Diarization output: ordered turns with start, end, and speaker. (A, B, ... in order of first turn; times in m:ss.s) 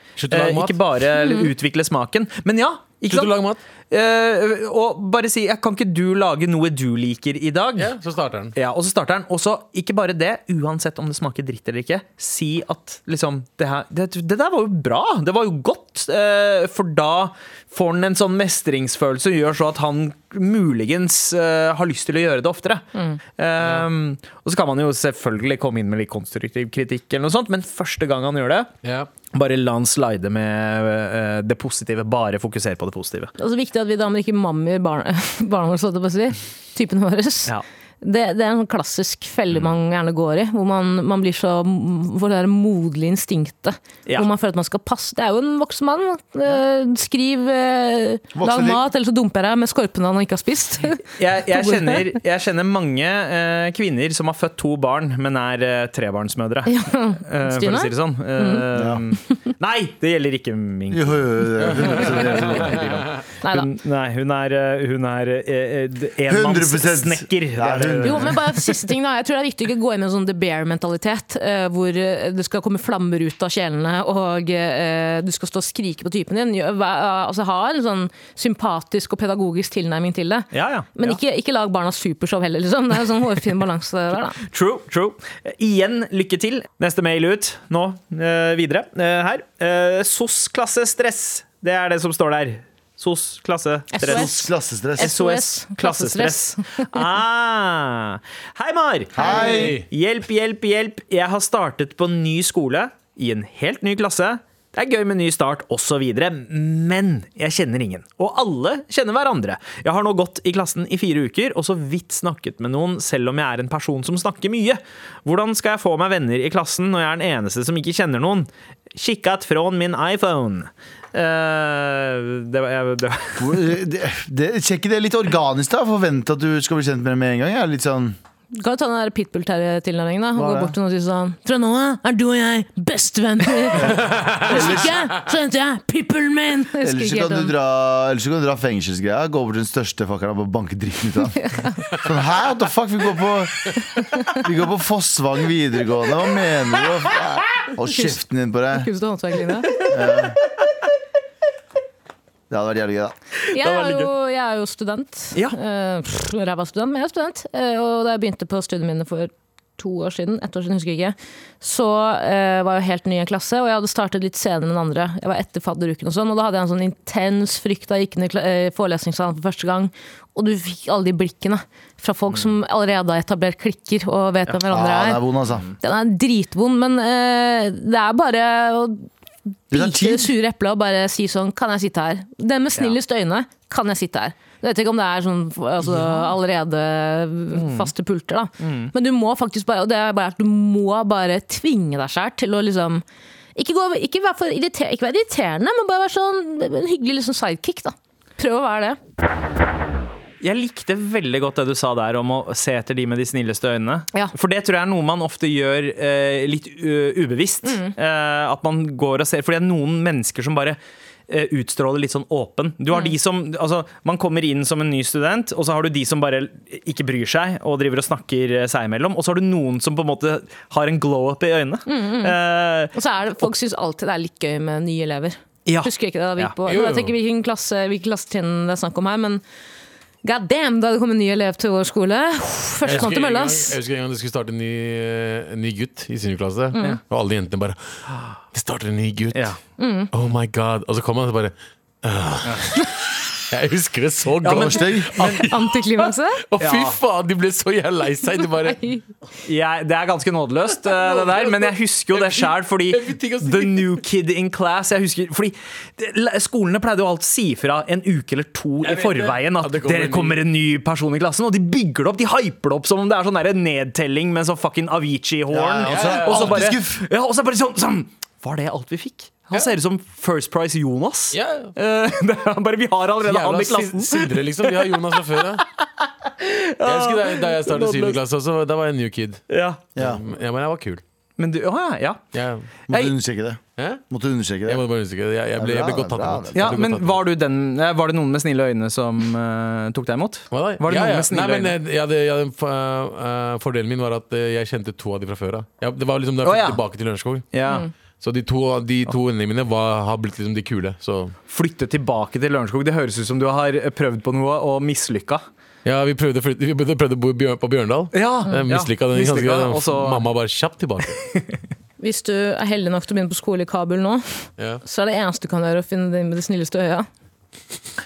0:00.2-0:00.8 A
0:00.3-0:03.4 B
0:01.2-0:01.5 C
0:03.1-0:03.6 A
0:03.9-0:07.9 B
0:07.8-0:08.6 A
0:08.6-0:28.7 B
0:22.9-0:23.2 C
0:23.6-0:23.8 A
0:28.8-0:29.1 A
0:29.3-0:33.3 B
0:33.4-0:51.0 C
0:48.3-0:48.8 D
0:51.2-1:08.5 B
0:51.5-0:52.0 C
0:56.6-0:58.6 C
0:58.7-0:59.0 D
1:00.9-1:03.0 D
1:01.6-1:02.9 A
1:03.4-1:03.7 C
1:06.3-1:08.4 D
1:08.0-1:24.4 C
1:20.5-1:21.2 B
1:24.5-1:34.3 B
1:33.9-1:36.9 C
1:34.0-1:35.1 D
1:35.0-2:03.8 B
1:39.1-1:39.8 D
1:39.2-1:39.5 C
1:39.4-1:39.8 A
2:03.4-2:08.2 D
2:08.5-2:17.5 C
2:10.4-2:10.7 D
2:13.8-2:15.0 D
2:14.0-2:14.5 A
2:16.8-2:28.9 D
2:21.4-2:21.7 C
2:28.7-2:29.8 C
2:29.8-2:30.4 D
2:32.5-2:33.1 D
2:33.5-2:34.1 B
2:33.5-2:55.3 C
2:54.7-2:55.6 D
2:55.5-2:55.8 B
2:55.8-2:59.1 C
2:59.7-3:13.0 C
2:59.7-3:00.3 D
3:05.8-3:06.3 B
3:07.5-3:07.9 B
3:08.6-3:08.9 B
3:13.6-3:19.0 C
3:20.4-3:42.9 B
3:27.6-3:27.9 C
3:41.9-3:42.4 C
3:42.9-3:49.4 C
3:45.6-3:46.5 B
3:46.6-3:47.1 A
3:50.2-3:53.7 C
3:52.8-3:57.8 A
3:56.7-3:57.0 C
3:58.5-3:59.5 A
3:59.3-3:59.6 B
3:59.8-4:00.1 C
4:00.1-4:02.8 A
4:03.5-4:08.8 A
4:04.4-4:05.5 B
4:04.4-4:05.3 D
4:05.2-4:06.4 C
4:06.6-4:07.0 B
4:08.6-4:09.0 C
4:09.4-4:35.0 B
4:10.8-4:14.0 A
4:18.8-4:20.4 A
4:25.5-4:27.0 D
4:25.5-4:26.8 A
4:31.3-4:31.7 A
4:33.2-4:35.6 A
4:36.4-4:38.2 B
4:36.8-4:39.4 A
4:39.5-4:39.8 B
4:40.0-4:40.2 D
4:40.0-4:41.0 A
4:41.4-4:42.2 B
4:42.3-4:42.7 A
4:42.9-4:44.8 D
4:43.8-4:44.0 A
4:44.6-4:47.2 A
4:45.6-4:46.8 D
4:46.5-4:51.8 B
4:50.5-4:57.5 A
4:56.4-4:56.8 B
4:57.5-4:57.9 B
4:58.2-5:01.3 A
5:01.5-5:05.4 B
5:05.8-5:11.2 A
5:08.1-5:10.2 B
5:12.0-5:17.0 C